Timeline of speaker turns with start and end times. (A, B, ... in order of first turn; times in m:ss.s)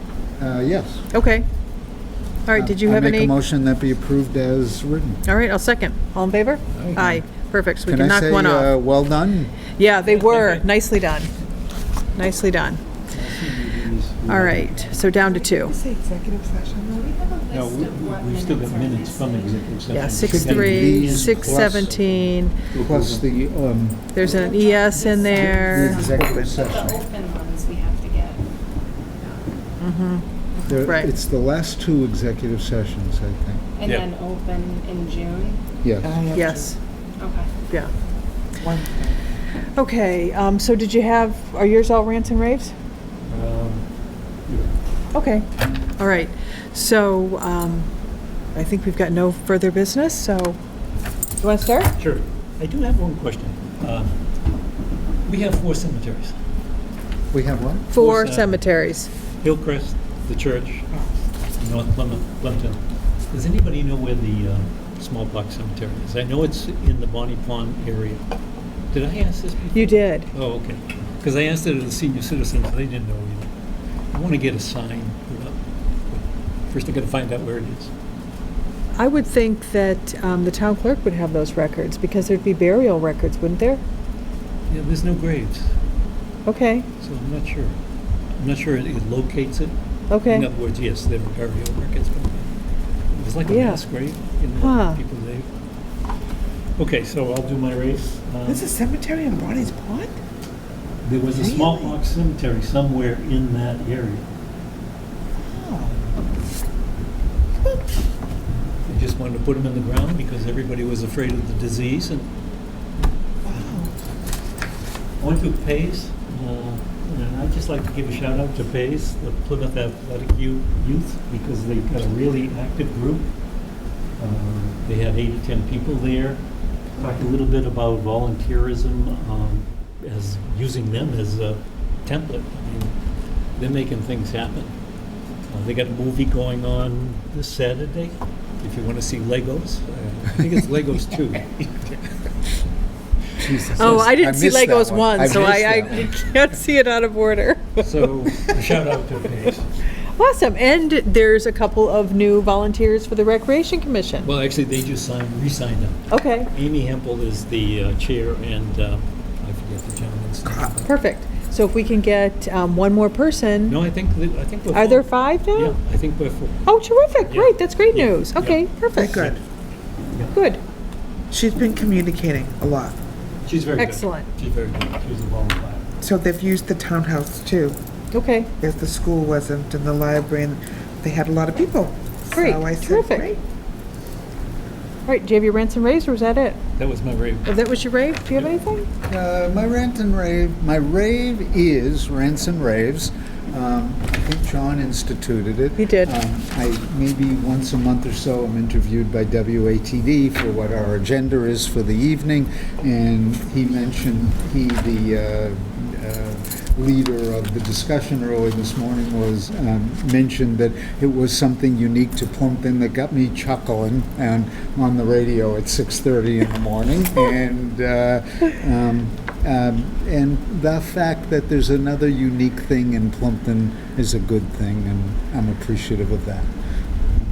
0:00.4-0:01.0 A
0:01.1-0:01.4 B
0:02.4-0:03.3 B
0:02.5-0:05.2 A
0:05.2-0:08.7 B
0:06.7-0:07.2 C
0:07.9-0:09.6 A
0:09.8-0:11.3 B
0:10.1-0:10.6 C
0:12.1-0:12.8 B
0:13.1-0:15.0 C
0:14.3-0:15.8 B
0:15.2-0:17.4 D
0:17.1-0:19.7 E
0:17.5-0:23.3 C
0:19.9-0:22.6 B
0:20.2-0:21.9 A
0:22.8-0:24.2 A
0:24.1-0:26.1 B
0:24.2-0:28.5 E
0:25.2-0:27.0 A
0:26.1-0:26.6 D
0:29.8-0:31.1 B
0:30.6-0:33.6 A
0:33.8-0:35.6 E
0:35.8-0:36.2 A
0:36.0-0:36.7 D
0:36.3-0:36.8 B
0:37.2-0:37.5 E
0:38.6-0:39.2 D
0:39.8-0:42.7 B
0:43.2-0:43.8 C
0:44.5-0:44.7 C
0:45.1-0:47.9 B
0:48.5-0:50.6 B
0:51.4-0:51.9 B
0:52.0-0:54.2 C
0:55.2-0:56.3 C
0:57.3-0:57.9 A
0:57.9-0:59.1 B
0:57.9-0:58.6 C
0:59.4-1:00.9 C
1:01.6-1:08.2 C
1:08.9-1:13.5 C
1:09.7-1:10.3 B
1:14.1-1:15.6 C
1:16.1-1:17.9 C
1:19.0-1:23.8 B
1:24.7-1:25.7 C
1:26.4-1:26.9 B
1:27.0-1:27.7 C
1:28.4-1:29.7 C
1:30.1-1:30.5 B
1:30.2-1:32.5 C
1:33.1-1:35.5 C
1:33.4-1:33.8 B
1:34.6-1:35.0 B
1:36.8-1:38.6 C
1:38.4-1:40.2 D
1:41.0-1:44.2 C
1:41.3-1:42.0 D
1:45.4-1:46.1 D
1:48.8-1:52.3 C
1:53.4-1:53.9 D
1:55.2-2:03.3 C
2:04.2-2:06.4 C
2:07.0-2:12.9 C
2:13.6-2:14.7 C
2:15.5-2:22.1 C
2:23.4-2:26.2 A
2:23.8-2:27.8 B
2:27.8-2:29.7 C
2:30.2-2:34.3 B
2:34.2-2:40.9 C
2:36.1-2:36.5 B
2:40.4-2:40.7 D
2:40.8-2:43.8 B
2:43.7-2:46.6 C
2:44.7-2:45.7 B
2:46.6-2:49.2 B
2:47.2-2:49.4 C
2:48.9-2:49.4 D
2:50.3-2:50.6 B
2:51.3-2:53.0 D
2:53.4-2:55.8 C
2:53.8-2:54.3 B
2:56.0-2:57.8 D
2:58.1-2:58.5 B
2:58.6-3:03.4 D
3:02.3-3:03.3 B
3:05.0-3:06.6 B
3:06.8-3:07.5 C
3:07.4-3:08.9 B
3:09.0-3:46.5 A
3:15.8-3:16.1 B